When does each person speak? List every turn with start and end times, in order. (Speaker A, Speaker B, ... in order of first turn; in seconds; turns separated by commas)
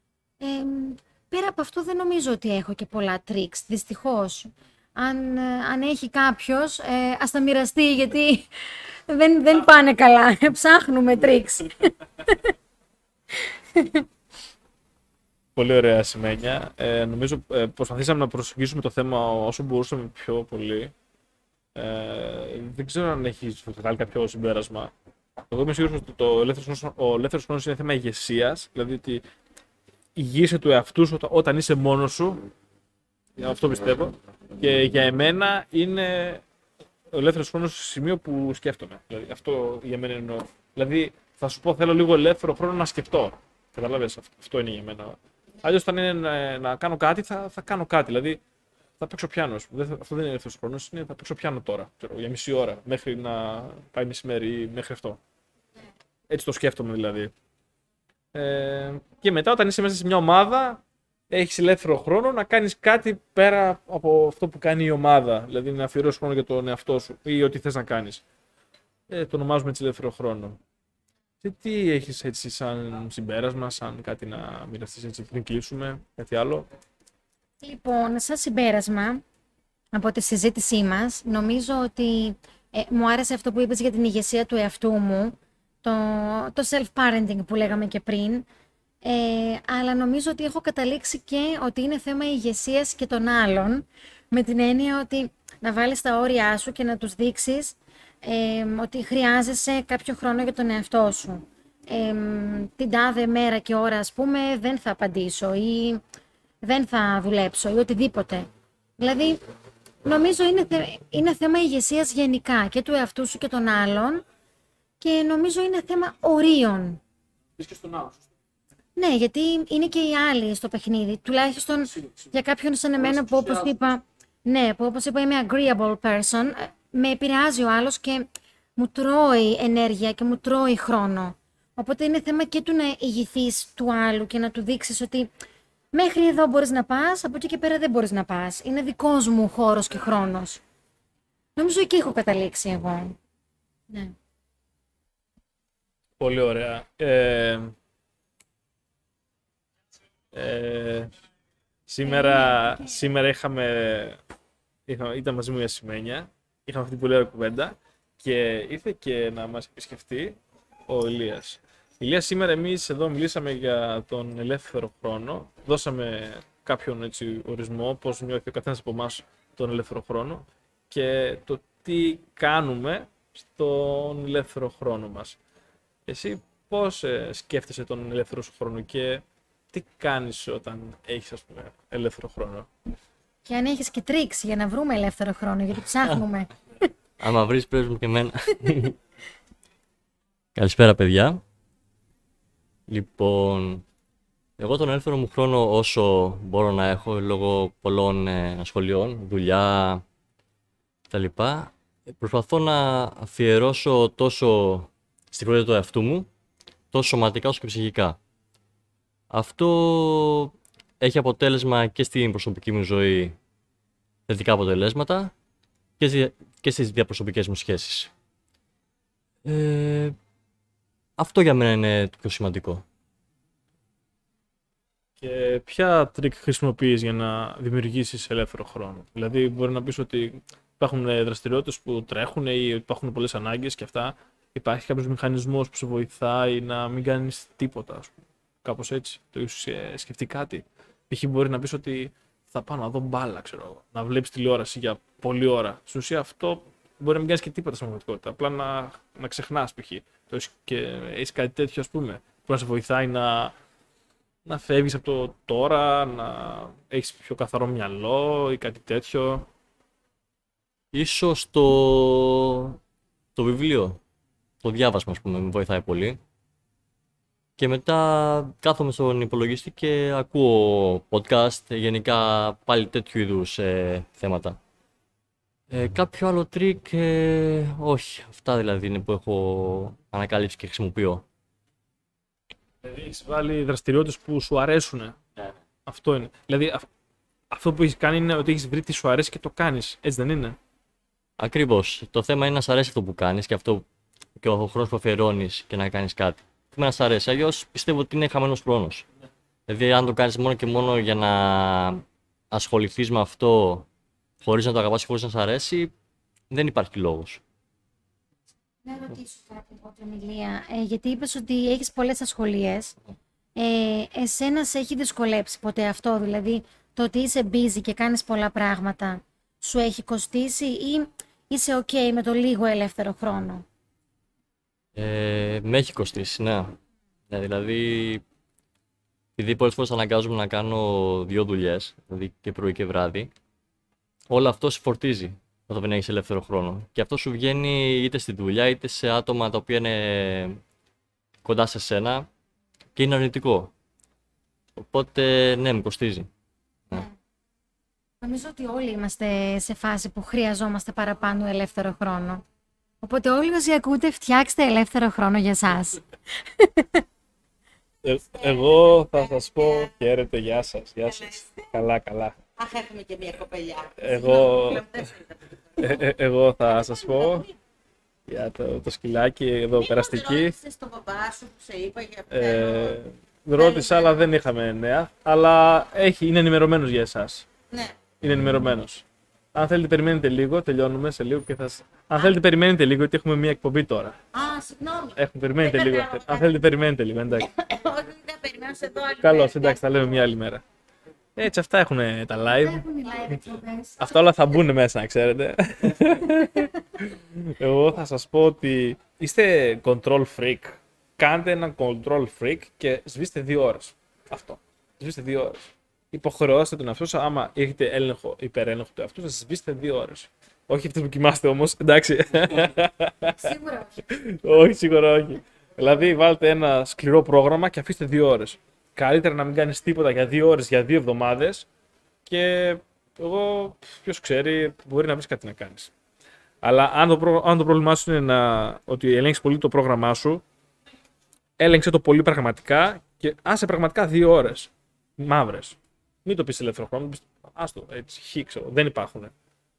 Speaker A: 0.4-8.5, Speaker A: 9.1-12.5, Speaker A: 13.3-14.1, Speaker B: 15.6-20.9, Speaker B: 21.7-24.9, Speaker B: 25.5-29.2, Speaker B: 30.1-32.5, Speaker B: 33.4-36.4, Speaker B: 37.1-48.4, Speaker B: 49.0-55.2, Speaker B: 56.3-57.3, Speaker B: 58.3-68.2, Speaker B: 69.1-70.6, Speaker B: 71.4-76.7, Speaker A: 77.6-79.2, Speaker A: 79.9-88.5, Speaker A: 89.0-106.0, Speaker A: 106.6-109.4, Speaker A: 110.0-114.2, Speaker A: 115.0-117.0, Speaker B: 117.6-118.3, Speaker A: 119.0-135.3, Speaker B: 123.2-123.7, Speaker A: 135.9-140.6, Speaker A: 141.6-143.2, Speaker A: 143.9-144.1, Speaker B: 146.2-147.7, Speaker B: 150.3-151.1, Speaker B: 151.9-154.2, Speaker A: 152.1-152.8, Speaker B: 154.9-175.4, Speaker B: 176.1-182.7, Speaker A: 183.4-186.9, Speaker C: 187.2-189.0, Speaker C: 190.6-191.4, Speaker C: 192.9-193.8, Speaker C: 194.6-200.0, Speaker C: 201.1-206.3, Speaker C: 206.9-208.2, Speaker C: 209.3-213.3, Speaker C: 214.3-215.3, Speaker C: 216.0-218.1, Speaker C: 219.4-220.2, Speaker C: 221.2-222.8, Speaker B: 225.2-253.5, Speaker B: 254.4-259.5, Speaker C: 260.9-262.8, Speaker C: 263.4-264.0, Speaker C: 264.6-266.2, Speaker C: 267.6-274.6, Speaker C: 275.7-281.2, Speaker B: 282.8-285.2, Speaker B: 285.9-286.9, Speaker B: 287.5-290.6, Speaker C: 291.4-293.8, Speaker C: 294.4-299.1, Speaker C: 299.7-303.9, Speaker C: 304.4-305.9, Speaker C: 306.5-307.4, Speaker A: 308.8-312.9, Speaker A: 313.6-323.6, Speaker C: 324.9-326.8, Speaker C: 327.3-328.2, Speaker C: 329.4-333.3, Speaker C: 334.3-340.6, Speaker C: 341.4-342.3, Speaker C: 342.9-343.7, Speaker C: 344.8-346.3, Speaker A: 348.2-352.4, Speaker A: 353.0-357.1, Speaker B: 358.0-362.4, Speaker D: 358.5-359.1, Speaker D: 362.6-366.1, Speaker B: 364.0-365.1, Speaker B: 365.8-367.5, Speaker D: 366.7-367.5, Speaker B: 368.3-370.6, Speaker D: 369.7-373.0, Speaker B: 372.3-377.5, Speaker D: 373.6-374.3, Speaker B: 378.2-384.1, Speaker D: 384.3-386.5, Speaker B: 385.1-387.5, Speaker D: 387.4-390.0, Speaker B: 389.2-390.6, Speaker B: 391.4-392.9, Speaker A: 392.5-394.1, Speaker B: 394.0-413.5, Speaker A: 396.2-396.7, Speaker A: 413.4-413.8, Speaker B: 414.1-421.7, Speaker B: 422.3-425.9, Speaker B: 426.6-430.4, Speaker B: 431.6-439.3